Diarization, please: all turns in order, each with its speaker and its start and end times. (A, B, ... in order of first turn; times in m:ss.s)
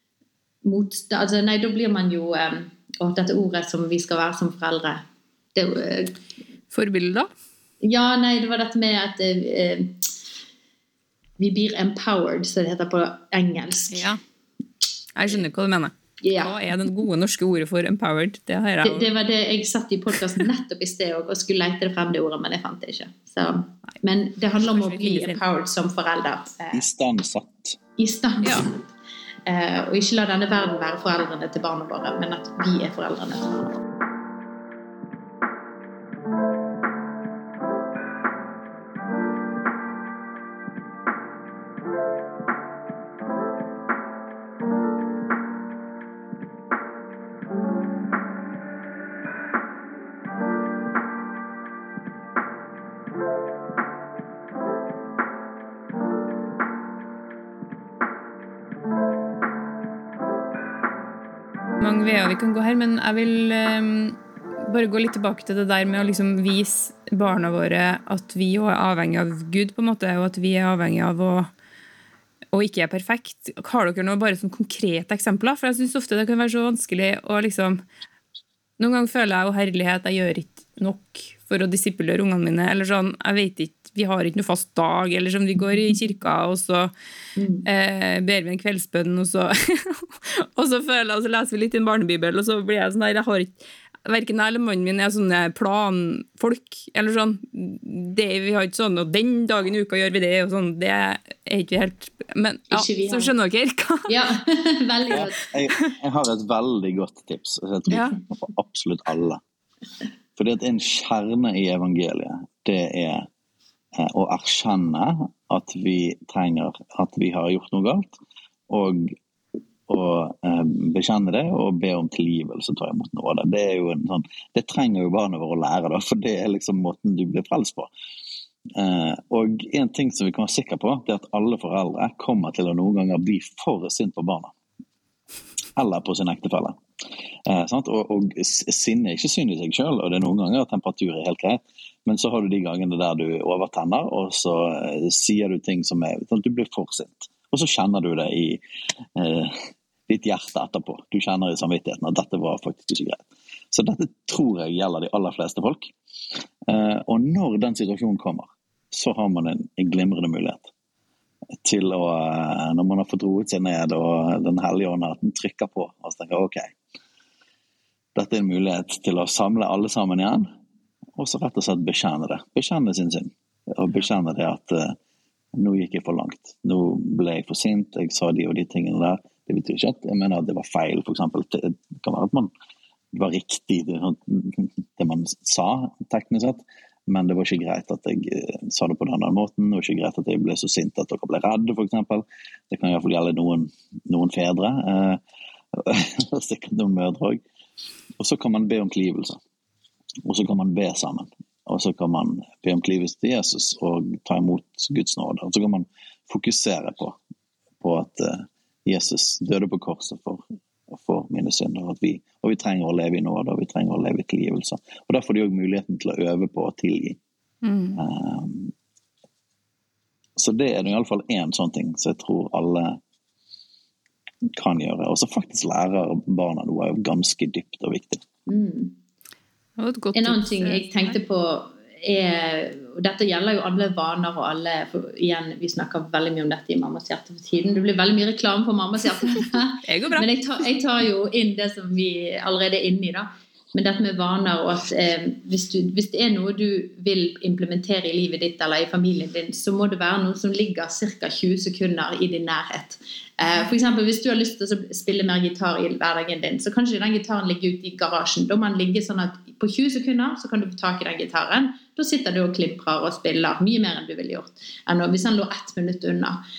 0:00.6-0:05.0 A
0:05.5-0:06.2 A
0:06.7-0:07.3 B
0:07.8-0:10.1 A
0:11.4-0:14.1 A
0:13.9-0:14.2 B
0:15.2-0:19.1 B
0:16.2-0:16.5 A
0:18.8-0:26.8 A
0:24.7-0:25.4 B
0:26.7-0:27.8 C
0:28.0-0:28.8 A
0:28.4-0:28.7 B
0:29.4-0:33.8 A
1:01.8-1:11.5 B
1:12.5-1:17.8 B
1:18.8-1:26.9 B
1:27.4-1:27.6 A
1:27.6-1:44.2 B
1:42.7-1:43.4 A
1:44.1-1:45.4 A
1:45.1-1:49.4 C
1:47.9-1:48.2 B
1:50.4-1:53.3 C
1:54.0-1:58.2 C
1:58.7-1:59.1 C
1:59.9-2:07.9 C
2:08.8-2:14.5 C
2:15.8-2:16.8 C
2:17.4-2:28.6 C
2:29.2-2:29.6 C
2:30.1-2:35.9 C
2:36.7-2:40.7 C
2:41.6-2:46.7 C
2:48.1-2:50.5 C
2:51.2-2:55.0 C
2:55.6-3:02.5 C
3:03.1-3:15.2 C
3:15.7-3:17.4 C
3:18.2-3:19.4 C
3:20.2-3:27.2 C
3:27.8-3:37.2 C
3:37.6-3:38.0 B
3:38.0-3:38.7 C
3:40.4-3:43.0 C
3:44.6-3:48.2 C
3:48.5-3:49.0 A
3:49.8-3:51.2 B
3:50.1-4:26.4 A
3:59.9-4:00.3 B